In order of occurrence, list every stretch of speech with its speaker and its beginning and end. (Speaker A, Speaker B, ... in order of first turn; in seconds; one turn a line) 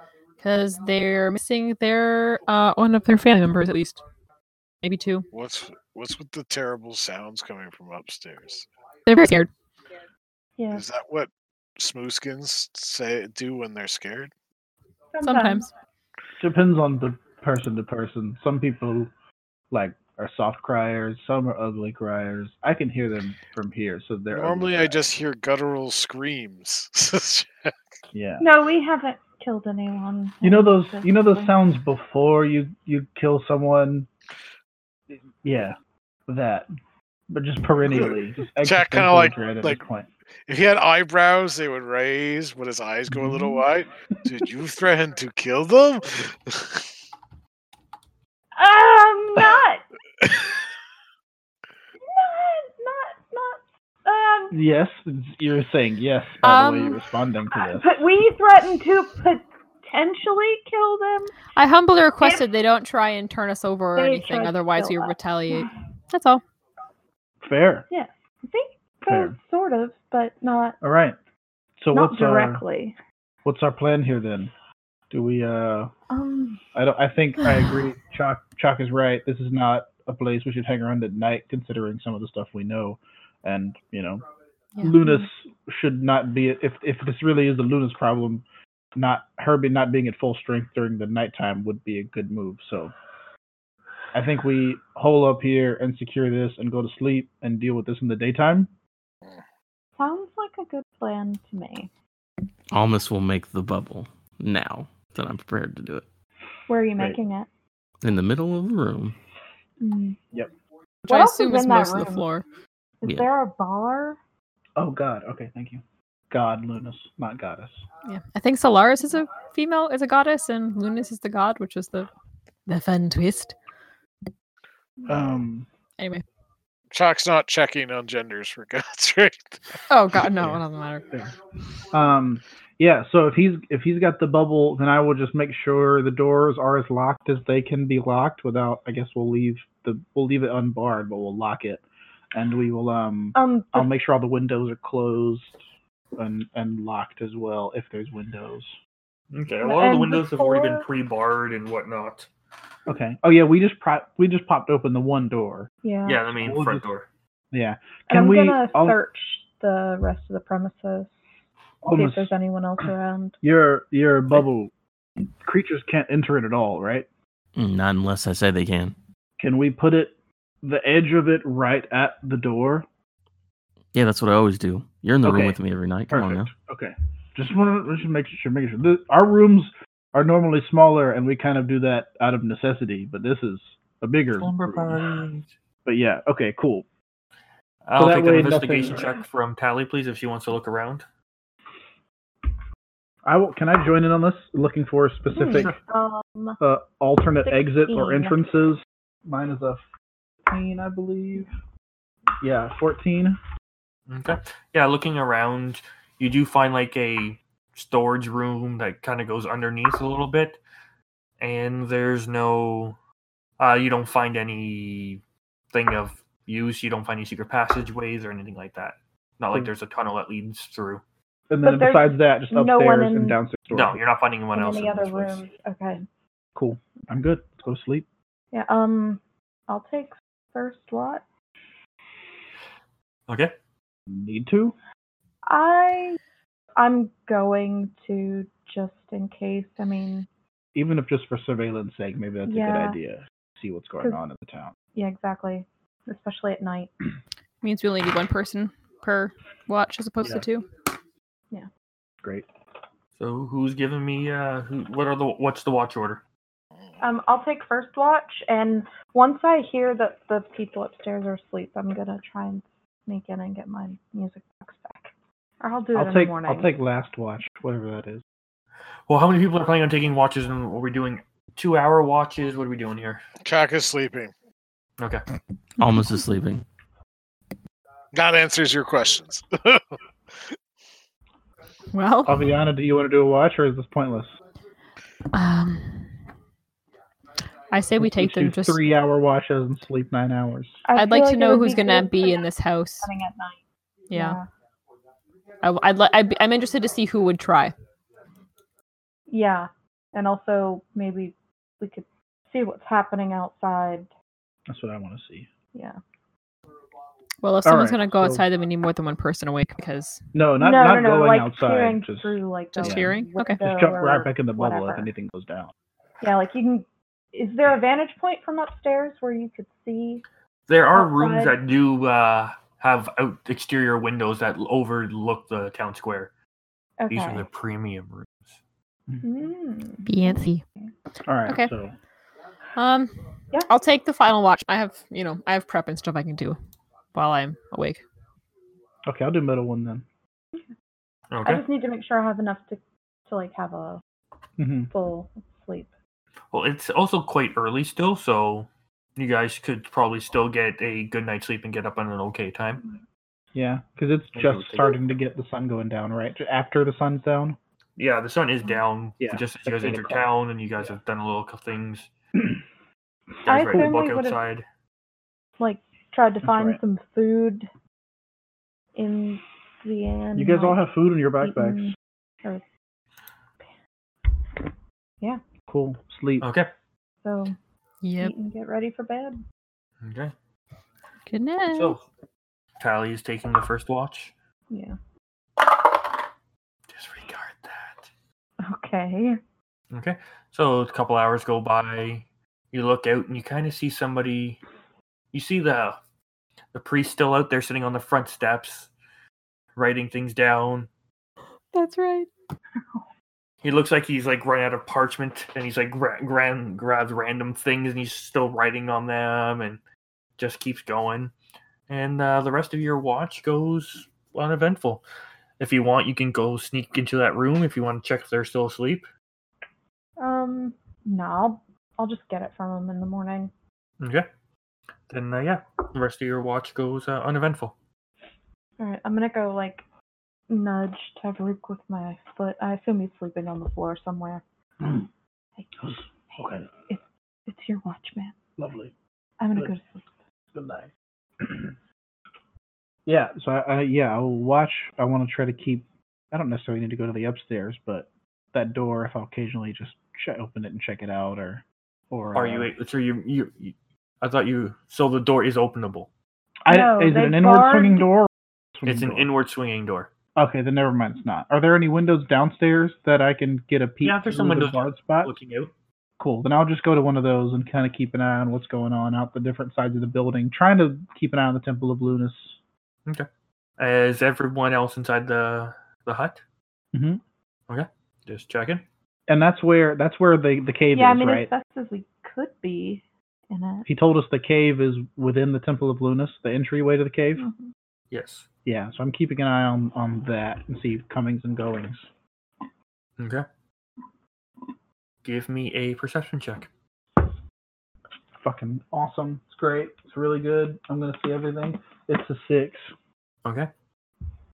Speaker A: 0.4-4.0
Speaker A: 4.8-5.3
Speaker B: 5.3-8.7
Speaker A: 9.1-9.5
Speaker C: 10.6-10.8
Speaker B: 10.7-14.3
Speaker C: 15.1-15.7
Speaker A: 15.2-15.7
Speaker D: 16.4-19.1
Speaker D: 19.7-25.0
Speaker B: 24.3-27.7
Speaker D: 28.1-28.4
Speaker C: 28.4-31.5
Speaker D: 30.4-34.1
Speaker D: 35.4-35.8
Speaker D: 36.3-36.7
Speaker D: 37.3-40.1
Speaker B: 37.9-39.8
Speaker B: 40.5-46.9
Speaker D: 43.1-43.6
Speaker C: 48.5-49.8
Speaker B: 50.2-50.6
Speaker C: 52.0-54.5
Speaker D: 54.5-58.0
Speaker A: 56.4-57.0
Speaker C: 57.6-61.4
Speaker A: 61.5-66.4
Speaker C: 64.0-65.7
Speaker D: 67.4-67.8
Speaker C: 67.9-70.8
Speaker D: 69.1-69.3
Speaker D: 70.8-71.2
Speaker D: 71.8-72.6
Speaker C: 71.9-73.0
Speaker D: 73.4-74.5
Speaker D: 75.1-75.9
Speaker C: 76.1-76.6
Speaker D: 76.7-84.2
Speaker D: 84.8-88.4
Speaker D: 88.9-92.9
Speaker D: 94.1-98.7
Speaker C: 100.0-101.9
Speaker E: 102.7-106.0
Speaker C: 106.7-107.5
Speaker E: 108.0-109.1
Speaker C: 109.8-110.2
Speaker A: 111.0-112.4
Speaker C: 111.1-112.2
Speaker C: 113.0-114.2
Speaker D: 114.8-117.8
Speaker A: 118.0-122.1
Speaker A: 122.7-123.5
Speaker D: 125.1-125.7
Speaker A: 126.0-126.2
Speaker B: 126.9-129.8
Speaker A: 129.9-131.2
Speaker D: 131.9-145.6
Speaker C: 143.3-143.9
Speaker D: 146.2-148.8
Speaker F: 149.3-152.3
Speaker C: 149.6-150.8
Speaker D: 152.9-155.7
Speaker C: 155.8-156.2
Speaker F: 156.1-157.1
Speaker D: 156.4-156.8
Speaker D: 157.5-159.0
Speaker C: 158.1-161.1
Speaker D: 161.8-162.3
Speaker C: 161.9-163.4
Speaker D: 163.4-164.7
Speaker D: 165.4-167.1
Speaker E: 167.6-168.9
Speaker D: 169.4-172.8
Speaker E: 173.9-176.5
Speaker D: 175.2-175.6
Speaker D: 176.1-185.0
Speaker F: 184.4-185.5
Speaker D: 185.8-186.8
Speaker F: 187.8-191.0
Speaker D: 188.0-189.2
Speaker D: 193.2-195.8
Speaker C: 195.3-196.6
Speaker D: 196.6-199.8
Speaker C: 197.4-198.4
Speaker D: 200.5-201.5
Speaker D: 202.4-203.4
Speaker F: 204.1-210.6
Speaker F: 211.4-213.0
Speaker F: 213.6-215.2
Speaker F: 215.7-221.0
Speaker D: 221.5-224.0
Speaker C: 221.6-223.4
Speaker F: 223.7-225.4
Speaker C: 224.5-226.0
Speaker D: 226.5-228.1
Speaker C: 228.5-231.2
Speaker F: 233.3-233.5
Speaker D: 234.1-234.7
Speaker C: 235.4-236.2
Speaker C: 236.8-240.3
Speaker D: 240.7-244.7
Speaker C: 242.4-243.0
Speaker C: 244.9-246.9
Speaker A: 247.6-250.7
Speaker F: 253.2-256.2
Speaker C: 257.0-266.7
Speaker D: 265.9-268.2
Speaker F: 269.1-273.2
Speaker B: 273.4-274.3
Speaker F: 275.0-275.2
Speaker E: 275.8-276.6
Speaker B: 278.1-280.5
Speaker A: 281.9-282.5
Speaker D: 282.2-284.3
Speaker A: 285.3-286.1
Speaker A: 287.7-288.8
Speaker D: 288.0-290.8
Speaker C: 290.8-292.4
Speaker A: 290.9-293.1
Speaker C: 293.0-293.6
Speaker A: 294.1-294.4
Speaker C: 294.1-294.5
Speaker A: 295.6-297.7
Speaker C: 299.3-304.1
Speaker D: 304.7-305.5
Speaker C: 305.7-306.0
Speaker A: 307.4-310.2
Speaker D: 307.6-308.4
Speaker D: 310.3-313.1
Speaker C: 310.6-315.1
Speaker A: 312.8-313.6
Speaker D: 313.6-315.7
Speaker C: 316.2-320.2
Speaker F: 320.7-326.3
Speaker C: 320.9-321.6
Speaker C: 327.0-327.4
Speaker F: 327.1-328.6
Speaker C: 329.2-330.9
Speaker A: 330.1-330.6
Speaker D: 331.2-331.9
Speaker A: 332.8-333.1
Speaker A: 333.7-336.6
Speaker A: 337.1-338.0
Speaker D: 339.1-340.0
Speaker F: 341.3-341.6
Speaker C: 341.4-344.0
Speaker D: 344.6-344.9
Speaker C: 344.9-345.9
Speaker F: 346.5-352.8
Speaker D: 353.5-357.6
Speaker F: 354.3-355.0
Speaker F: 358.0-362.1
Speaker D: 359.2-360.2
Speaker F: 363.4-364.6
Speaker C: 363.4-364.4
Speaker C: 365.6-367.7
Speaker D: 366.4-366.8
Speaker C: 368.9-370.8
Speaker D: 370.4-371.9
Speaker C: 371.4-372.6
Speaker D: 375.7-376.5
Speaker F: 376.4-376.7
Speaker C: 377.2-377.5
Speaker A: 378.0-378.3
Speaker C: 378.2-379.4
Speaker F: 380.0-380.3
Speaker A: 381.3-382.0
Speaker F: 381.7-382.0
Speaker F: 382.8-384.3
Speaker C: 384.7-385.0
Speaker F: 386.9-388.1
Speaker C: 388.6-389.4
Speaker F: 389.9-394.6
Speaker F: 395.3-396.0
Speaker F: 396.7-398.9
Speaker F: 399.8-400.9
Speaker A: 401.7-402.3
Speaker F: 403.6-409.8
Speaker F: 410.4-411.3
Speaker F: 411.9-415.0
Speaker F: 415.6-419.1
Speaker C: 420.2-423.5
Speaker F: 424.0-424.3
Speaker F: 425.1-427.7
Speaker C: 428.8-429.8
Speaker C: 430.5-434.4
Speaker D: 434.8-435.1
Speaker D: 435.8-436.7
Speaker C: 436.9-438.3
Speaker D: 438.6-438.9
Speaker C: 439.4-440.1
Speaker D: 440.5-441.7
Speaker D: 443.1-452.7
Speaker F: 452.3-456.1
Speaker D: 456.6-459.3
Speaker C: 456.7-458.1
Speaker F: 458.8-460.1
Speaker D: 460.4-465.3
Speaker F: 464.0-465.7
Speaker D: 466.2-472.5
Speaker F: 473.8-476.4
Speaker D: 476.9-477.2
Speaker F: 477.7-478.8
Speaker D: 479.3-481.5
Speaker C: 480.9-483.9
Speaker D: 483.9-487.4
Speaker C: 487.4-487.7
Speaker F: 488.1-488.5
Speaker D: 488.6-492.1
Speaker F: 493.2-493.4
Speaker F: 495.2-496.7
Speaker D: 498.4-502.9